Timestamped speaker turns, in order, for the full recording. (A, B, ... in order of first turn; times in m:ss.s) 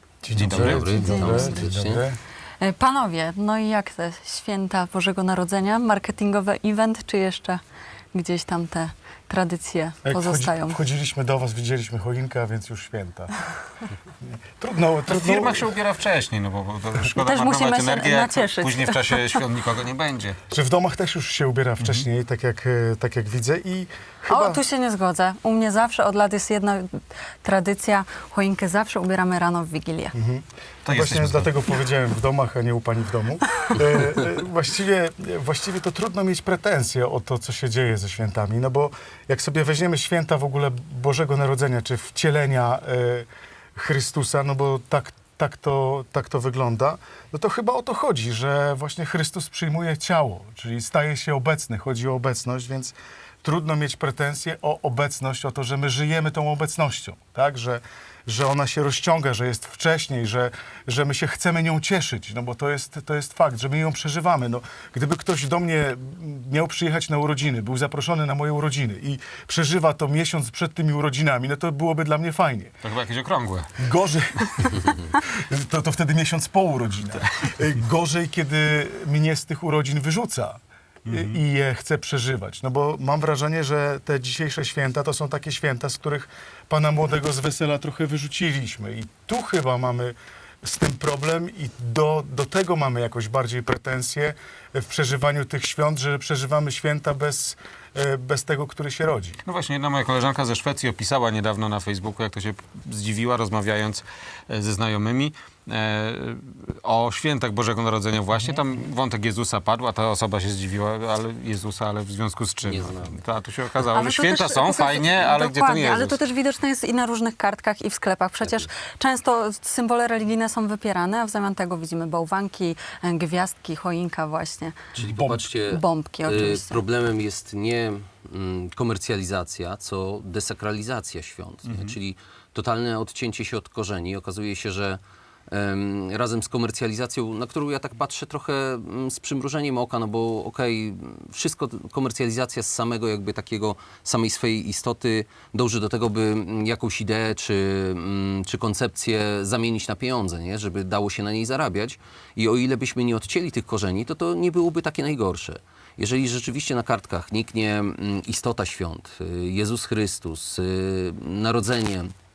0:00.2-0:02.2 A
0:00.3-0:01.3 B
0:00.5-0:02.0 C
0:02.6-0:07.6 D
0:08.1-0:10.8 D
0:10.0-0:13.3 A
0:14.6-0:15.7 A
0:15.1-0:20.4 B
0:17.1-0:19.4 D
0:20.5-0:24.6 A
0:24.3-0:30.1 D
0:30.1-1:12.8 A
0:30.8-0:31.5 B
1:12.8-1:13.8 B
1:13.8-1:39.4 A
1:21.1-1:21.3 B
1:39.4-1:56.2 B
1:52.6-1:53.2 C
1:53.9-2:04.7 D
2:04.9-2:42.1 C
2:05.0-2:05.4 A
2:05.6-2:06.8 D
2:11.7-2:11.9 B